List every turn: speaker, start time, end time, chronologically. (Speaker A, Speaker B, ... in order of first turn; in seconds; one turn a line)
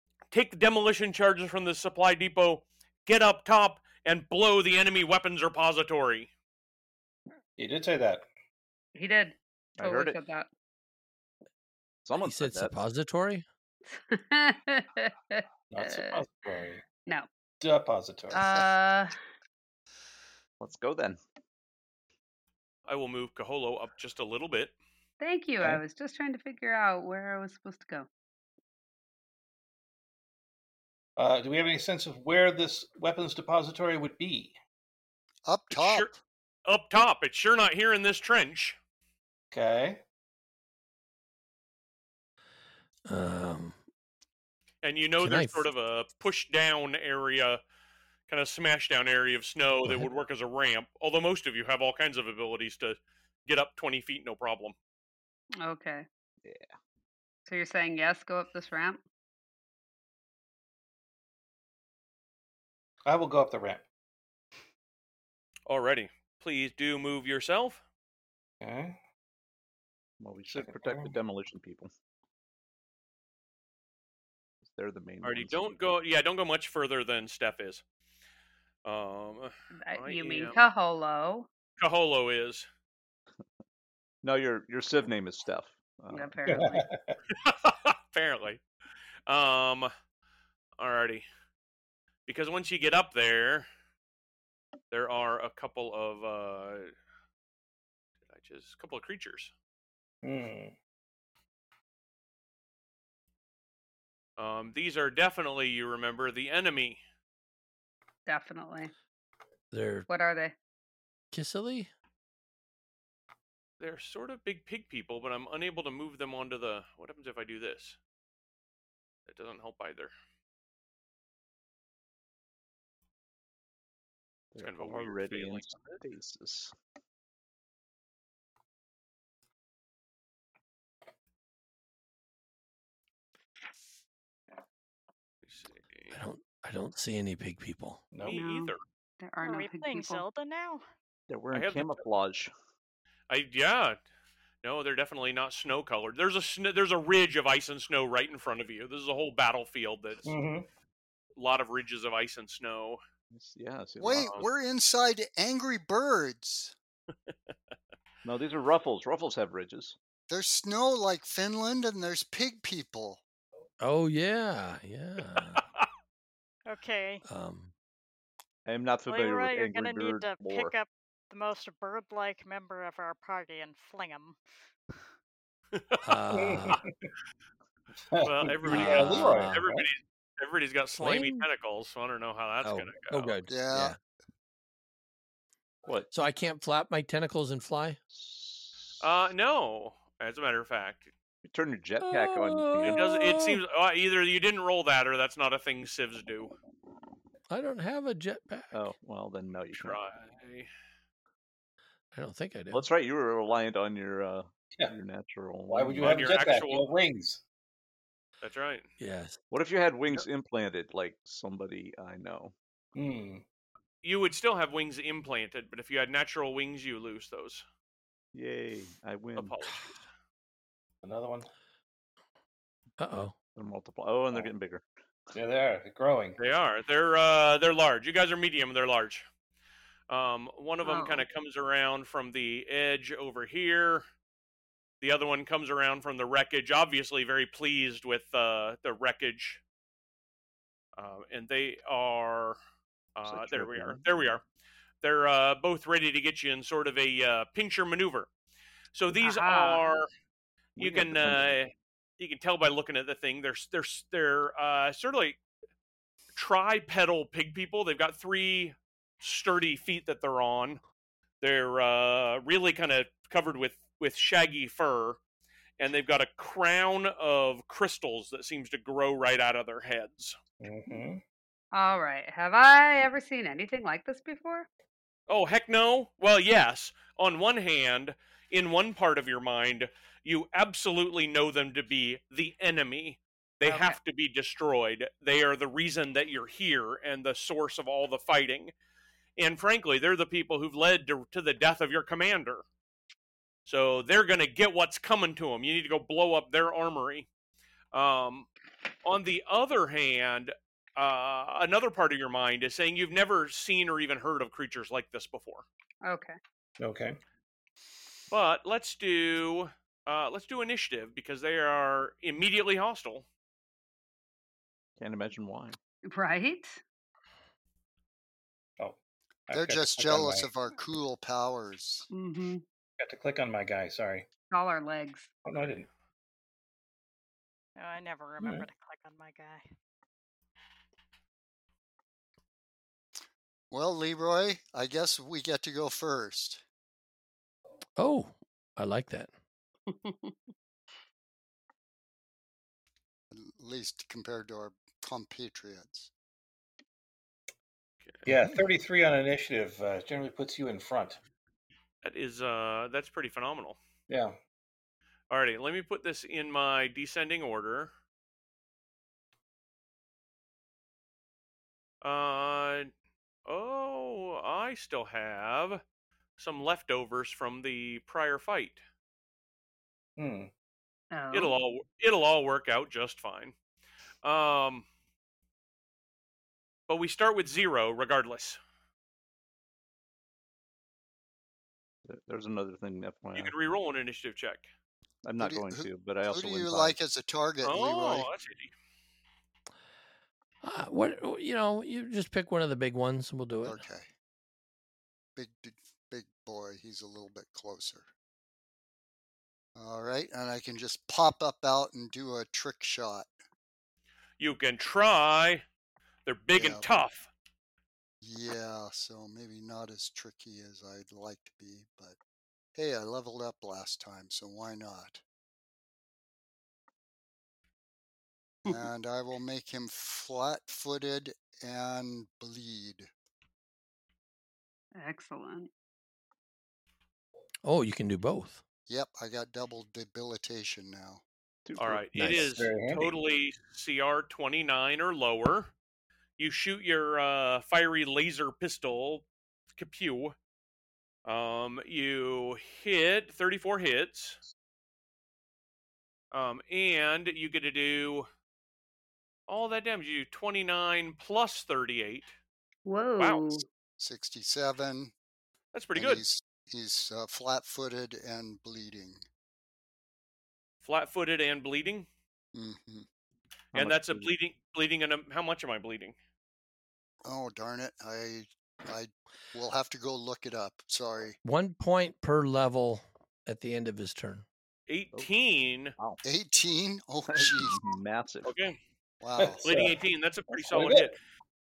Speaker A: 0.3-6.3
Speaker B: 7.6-8.2
Speaker C: 8.9-10.5
Speaker D: 9.8-10.2
Speaker D: 12.0-12.8
Speaker E: 12.2-13.4
Speaker C: 13.9-16.2
Speaker B: 15.7-16.8
Speaker B: 17.6-18.7
Speaker C: 18.3-19.1
Speaker D: 20.6-21.2
Speaker A: 22.9-24.7
Speaker C: 25.2-28.1
Speaker B: 31.2-34.5
Speaker F: 35.5-36.2
Speaker A: 35.7-36.1
Speaker A: 36.6-38.8
Speaker B: 39.5-40.0
Speaker E: 43.1-43.8
Speaker A: 44.8-47.6
Speaker E: 45.2-45.7
Speaker A: 48.3-54.8
Speaker C: 55.6-56.1
Speaker D: 56.4-56.7
Speaker C: 57.5-59.0
Speaker B: 63.0-63.8
Speaker A: 65.7-67.8
Speaker B: 68.6-69.0
Speaker D: 70.2-71.9
Speaker B: 70.5-71.1
Speaker D: 74.7-75.8
Speaker A: 75.2-77.8
Speaker A: 78.8-80.6
Speaker C: 79.9-81.5
Speaker A: 81.8-82.7
Speaker D: 84.2-86.4
Speaker C: 86.1-86.8
Speaker B: 86.5-87.2
Speaker A: 87.3-88.6
Speaker A: 89.3-89.9
Speaker A: 90.8-91.2
Speaker A: 92.2-93.7
Speaker A: 94.9-96.9
Speaker A: 98.3-99.5
Speaker B: 100.2-100.7
Speaker A: 104.4-107.0
Speaker C: 108.3-108.9
Speaker E: 109.7-110.1
Speaker C: 110.1-110.5
Speaker E: 111.3-111.9
Speaker A: 113.8-118.0
Speaker A: 119.3-120.1
Speaker D: 124.5-126.7
Speaker A: 124.6-126.0
Speaker A: 135.4-136.2
Speaker E: 136.1-138.0
Speaker B: 138.1-138.4
Speaker A: 138.2-138.8
Speaker C: 138.3-140.2
Speaker G: 139.4-140.8
Speaker D: 141.3-142.5
Speaker A: 141.5-142.1
Speaker A: 143.3-144.0
Speaker A: 144.6-150.3
Speaker B: 150.2-150.7
Speaker A: 151.3-153.0
Speaker D: 153.3-154.4
Speaker F: 154.0-156.7
Speaker A: 154.2-154.4
Speaker D: 158.2-160.0
Speaker F: 160.3-163.2
Speaker E: 163.8-165.6
Speaker G: 166.7-167.2
Speaker E: 167.2-167.7
Speaker D: 168.7-170.7
Speaker G: 169.1-174.4
Speaker A: 175.7-176.0
Speaker E: 176.0-176.8
Speaker B: 176.3-176.9
Speaker B: 178.1-179.9
Speaker A: 178.2-183.4
Speaker E: 178.6-179.6
Speaker E: 181.0-181.4
Speaker E: 182.6-184.0
Speaker F: 183.5-183.9
Speaker D: 185.8-186.1
Speaker E: 186.1-188.0
Speaker D: 188.1-189.1
Speaker A: 189.0-191.1
Speaker D: 191.4-193.1
Speaker E: 192.0-193.6
Speaker A: 192.8-196.5
Speaker E: 197.5-198.9
Speaker D: 198.7-200.0
Speaker A: 199.7-200.7
Speaker E: 202.1-202.8
Speaker D: 202.7-206.4
Speaker B: 205.7-207.4
Speaker A: 206.0-206.8
Speaker A: 208.4-208.9
Speaker E: 209.0-209.4
Speaker D: 209.5-212.5
Speaker B: 212.9-213.4
Speaker A: 214.0-217.6
Speaker D: 218.3-219.6
Speaker A: 219.3-219.9
Speaker B: 221.0-221.5
Speaker E: 223.0-223.3
Speaker D: 223.5-224.8
Speaker B: 225.3-226.4
Speaker A: 226.4-229.2
Speaker A: 230.1-234.0
Speaker C: 230.8-231.2
Speaker A: 235.0-239.6
Speaker A: 241.0-242.6
Speaker A: 243.2-244.4
Speaker D: 243.2-244.0
Speaker A: 245.0-248.3
Speaker A: 248.9-250.1
Speaker C: 249.2-249.8
Speaker D: 250.8-251.6
Speaker A: 250.8-255.4
Speaker A: 256.3-260.8
Speaker A: 261.4-265.2
Speaker A: 265.8-270.4
Speaker B: 270.6-271.2
Speaker C: 271.7-274.7
Speaker A: 275.3-288.7
Speaker C: 283.6-284.0
Speaker A: 289.4-292.6
Speaker A: 293.6-297.3
Speaker A: 297.9-298.5
Speaker A: 299.0-305.6
Speaker C: 306.0-306.4
Speaker B: 306.8-307.2
Speaker A: 308.3-313.2
Speaker D: 315.0-315.8
Speaker C: 316.1-316.8
Speaker B: 319.5-320.5
Speaker F: 319.5-322.1
Speaker C: 322.1-322.6
Speaker B: 323.0-324.3
Speaker C: 324.5-325.3
Speaker B: 325.4-325.9
Speaker G: 327.8-329.6
Speaker B: 328.4-328.6
Speaker F: 333.7-336.6
Speaker E: 338.0-339.3
Speaker C: 339.9-340.4
Speaker F: 343.3-346.1
Speaker B: 348.2-351.2
Speaker A: 352.0-353.8
Speaker B: 354.1-354.4
Speaker A: 355.3-357.9
Speaker A: 362.0-362.9
Speaker A: 363.4-365.8
Speaker A: 366.4-368.8
Speaker B: 370.2-370.5
Speaker C: 371.1-371.5
Speaker A: 371.3-373.5
Speaker A: 374.2-374.9
Speaker A: 376.9-378.6
Speaker D: 382.1-383.5
Speaker A: 383.3-384.7
Speaker D: 385.2-387.0
Speaker F: 385.4-388.3
Speaker A: 387.6-388.7
Speaker E: 390.6-393.8
Speaker F: 393.6-394.1
Speaker F: 395.4-398.1
Speaker F: 399.8-403.3
Speaker A: 404.4-405.6
Speaker A: 406.2-407.3
Speaker F: 406.6-406.9
Speaker F: 408.2-412.2
Speaker F: 412.8-415.2
Speaker F: 418.6-423.1
Speaker C: 425.0-425.7
Speaker E: 427.6-428.6
Speaker F: 428.9-431.2
Speaker D: 431.6-432.4
Speaker A: 431.8-435.7
Speaker E: 432.1-432.5
Speaker B: 432.4-433.1
Speaker A: 436.4-439.2
Speaker A: 439.8-440.4
Speaker A: 441.2-444.4
Speaker A: 446.3-448.3
Speaker A: 449.5-452.3
Speaker C: 452.9-453.6
Speaker A: 453.2-453.6
Speaker F: 454.0-455.1
Speaker A: 455.7-456.2
Speaker F: 455.9-459.2
Speaker A: 460.8-462.1
Speaker F: 462.5-463.1
Speaker D: 463.7-464.3
Speaker A: 463.7-466.1
Speaker F: 467.2-471.4
Speaker E: 471.4-474.4
Speaker A: 474.9-475.9
Speaker F: 476.2-477.8
Speaker D: 477.3-478.5
Speaker A: 478.4-478.8
Speaker F: 479.2-479.6
Speaker B: 479.4-480.0
Speaker A: 479.6-481.1
Speaker B: 480.5-481.1